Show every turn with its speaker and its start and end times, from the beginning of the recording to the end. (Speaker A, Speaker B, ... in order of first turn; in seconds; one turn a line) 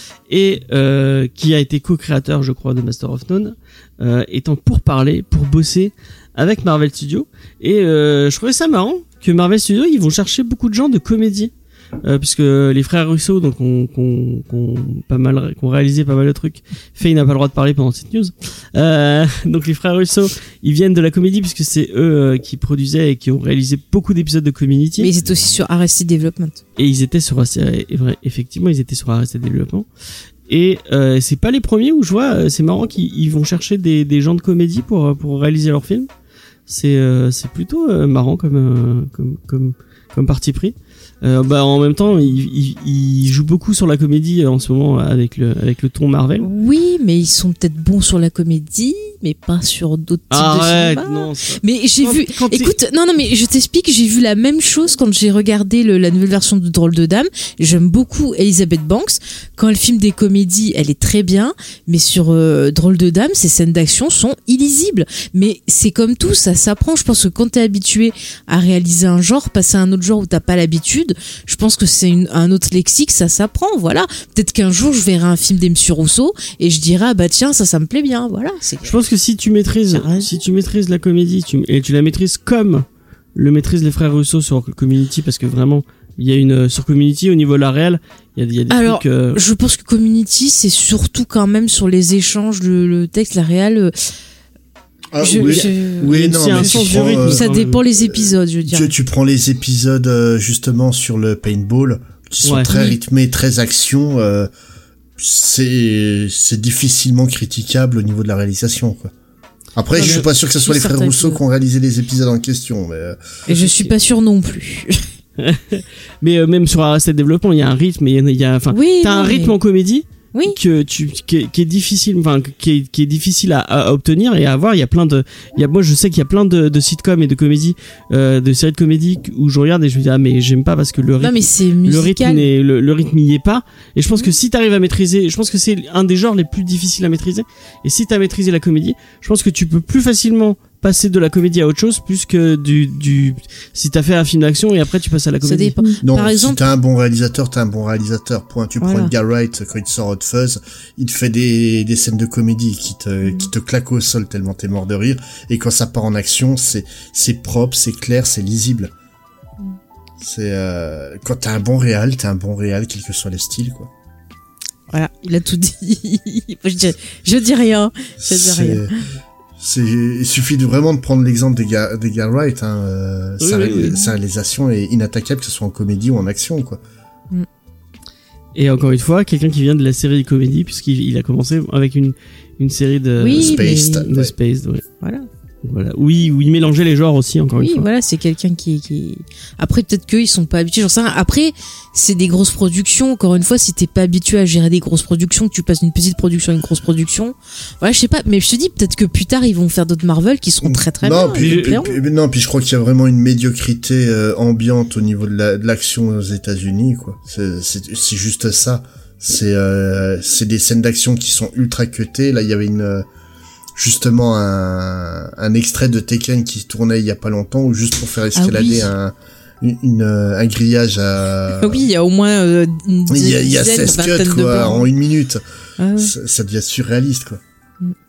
Speaker A: 0.3-11.5
Speaker A: 12.0-25.1
Speaker B: 25.0-26.6
Speaker A: 26.8-29.9
Speaker A: 30.5-36.1
Speaker A: 36.7-46.5
Speaker B: 46.4-79.0
Speaker A: 50.3-52.7
Speaker A: 78.8-89.4
Speaker B: 79.9-80.3
Speaker B: 88.7-94.0
Speaker C: 95.1-97.5
Speaker B: 95.2-98.9
Speaker A: 95.4-97.8
Speaker C: 98.0-104.5
Speaker A: 102.4-102.7
Speaker B: 102.7-103.0
Speaker C: 105.2-109.1
Speaker C: 109.8-113.2
Speaker B: 110.0-111.4
Speaker A: 110.0-110.3
Speaker A: 113.5-113.9
Speaker B: 113.5-115.1
Speaker A: 115.4-145.8
Speaker B: 118.7-119.5
Speaker B: 120.3-120.6
Speaker B: 131.2-132.4
Speaker B: 145.4-146.7
Speaker C: 146.0-158.9
Speaker B: 148.8-149.1
Speaker C: 160.2-163.9
Speaker B: 164.9-168.9
Speaker C: 168.2-168.9
Speaker C: 169.6-176.8
Speaker A: 173.4-174.0
Speaker A: 178.6-184.8
Speaker B: 183.2-184.1
Speaker C: 183.3-184.3
Speaker B: 185.0-185.3
Speaker A: 185.6-187.9
Speaker B: 187.6-201.9
Speaker C: 200.6-213.1
Speaker A: 201.3-202.0
Speaker C: 213.8-221.9
Speaker B: 218.4-218.9
Speaker B: 221.6-224.9
Speaker C: 223.1-225.4
Speaker B: 225.8-226.1
Speaker C: 226.0-227.4